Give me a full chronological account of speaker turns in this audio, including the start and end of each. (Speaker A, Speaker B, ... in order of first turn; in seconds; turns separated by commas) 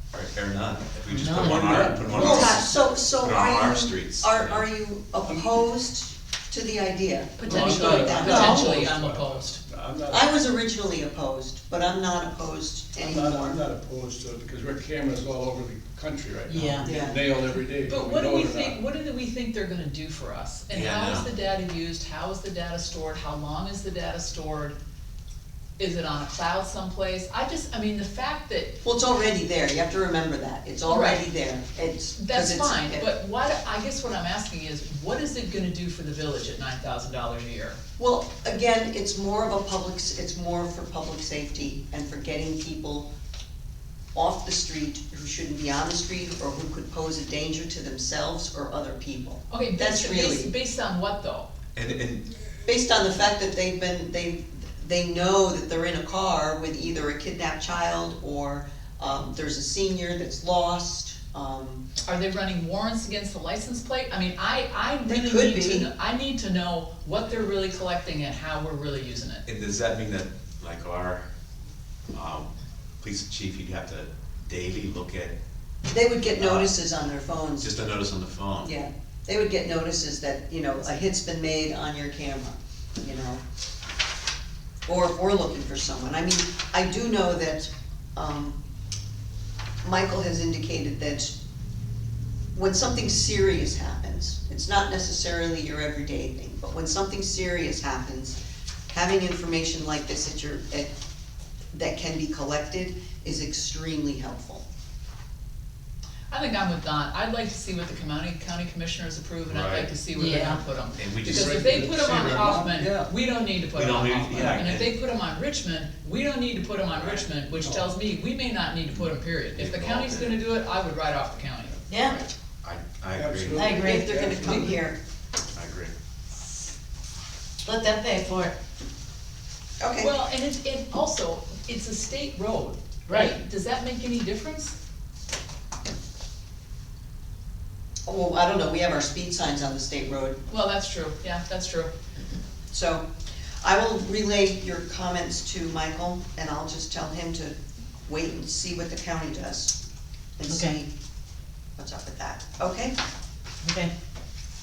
Speaker A: 0.1-4.7, Speaker B: 1.1-1.9, Speaker C: 1.3-2.6, Speaker D: 2.1-8.8, Speaker C: 5.2-5.6, Speaker E: 7.4-9.6, Speaker C: 7.5-10.3, Speaker D: 10.1-13.6, Speaker C: 13.0-18.8, Speaker B: 16.5-16.9, Speaker D: 16.8-17.2, Speaker E: 17.9-24.8, Speaker A: 20.7-21.3, Speaker E: 25.8-28.8, Speaker D: 28.8-33.1, Speaker E: 30.9-31.2, Speaker E: 32.2-37.8, Speaker D: 38.0-43.1, Speaker D: 44.1-50.5, Speaker E: 49.5-51.5, Speaker A: 51.8-52.3, Speaker D: 52.7-61.8, Speaker E: 62.1-69.4, Speaker D: 65.1-65.9, Speaker A: 69.5-71.3, Speaker A: 72.1-72.5, Speaker A: 73.0-75.4, Speaker D: 75.9-77.8, Speaker A: 76.4-76.7, Speaker A: 77.6-78.7, Speaker D: 78.6-83.4, Speaker D: 84.9-88.6, Speaker D: 89.8-91.3, Speaker D: 92.5-98.4, Speaker D: 98.9-100.9, Speaker D: 101.7-104.6, Speaker E: 106.3-121.8, Speaker A: 109.5-109.9, Speaker B: 110.1-110.6, Speaker A: 111.0-111.9, Speaker C: 111.3-113.1, Speaker A: 113.8-114.9, Speaker A: 116.9-117.3, Speaker C: 117.6-117.9, Speaker A: 118.9-120.4, Speaker B: 121.9-122.2, Speaker A: 122.0-123.7, Speaker C: 123.2-124.9, Speaker B: 123.5-124.1, Speaker D: 123.6-125.0, Speaker A: 125.5-125.9, Speaker B: 127.6-128.5, Speaker D: 129.8-130.1, Speaker E: 130.0-134.8, Speaker B: 133.1-133.3, Speaker D: 138.1-140.4, Speaker E: 140.5-141.9, Speaker D: 142.7-143.1, Speaker D: 143.6-149.8, Speaker D: 150.4-150.9, Speaker B: 150.5-150.7, Speaker D: 151.8-153.0, Speaker B: 153.6-153.9